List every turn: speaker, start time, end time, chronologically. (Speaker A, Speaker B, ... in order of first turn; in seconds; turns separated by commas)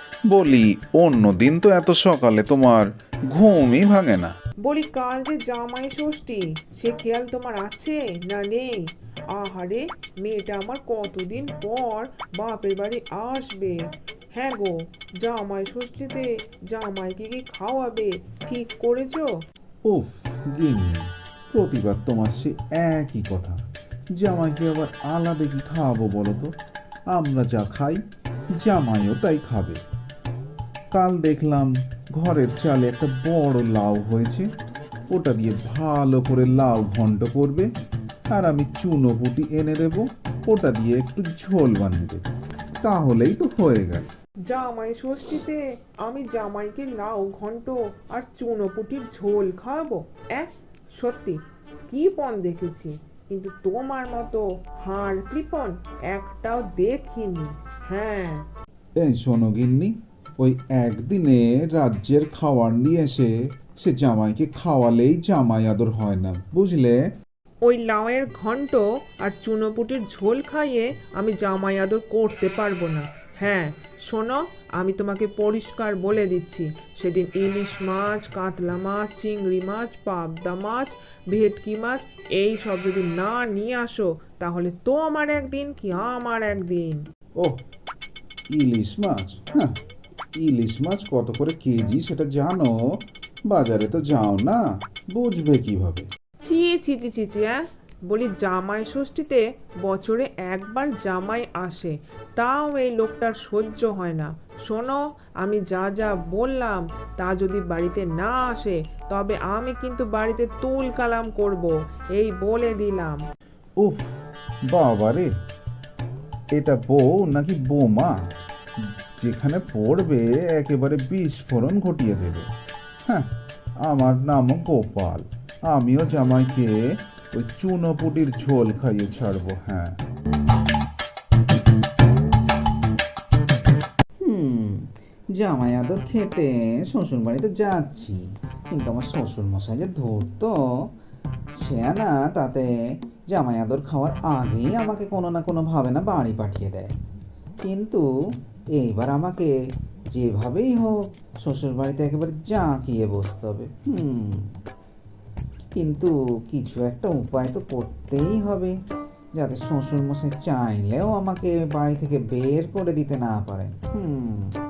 Speaker A: 0.3-4.3, Speaker B: 4.6-13.8, Speaker B: 14.3-19.3, Speaker A: 19.9-23.6, Speaker A: 24.2-26.5, Speaker A: 27.1-28.0, Speaker A: 28.6-29.8, Speaker A: 30.9-34.5, Speaker A: 35.1-37.7, Speaker A: 38.3-42.2, Speaker A: 42.8-44.0, Speaker B: 44.5-58.4, Speaker A: 59.0-67.0, Speaker B: 67.6-87.0, Speaker A: 88.5-89.8, Speaker A: 90.4-92.8, Speaker A: 93.5-94.6, Speaker A: 95.1-96.1, Speaker B: 96.4-113.2, Speaker A: 113.8-114.1, Speaker A: 114.7-115.3, Speaker A: 116.5-118.1, Speaker A: 119.2-122.5, Speaker A: 123.8-126.7, Speaker A: 127.3-130.0, Speaker C: 134.2-140.6, Speaker C: 141.6-142.7, Speaker C: 143.3-146.9, Speaker C: 147.7-148.1, Speaker C: 148.8-149.5, Speaker C: 150.1-154.5, Speaker C: 155.8-158.7, Speaker C: 159.4-164.5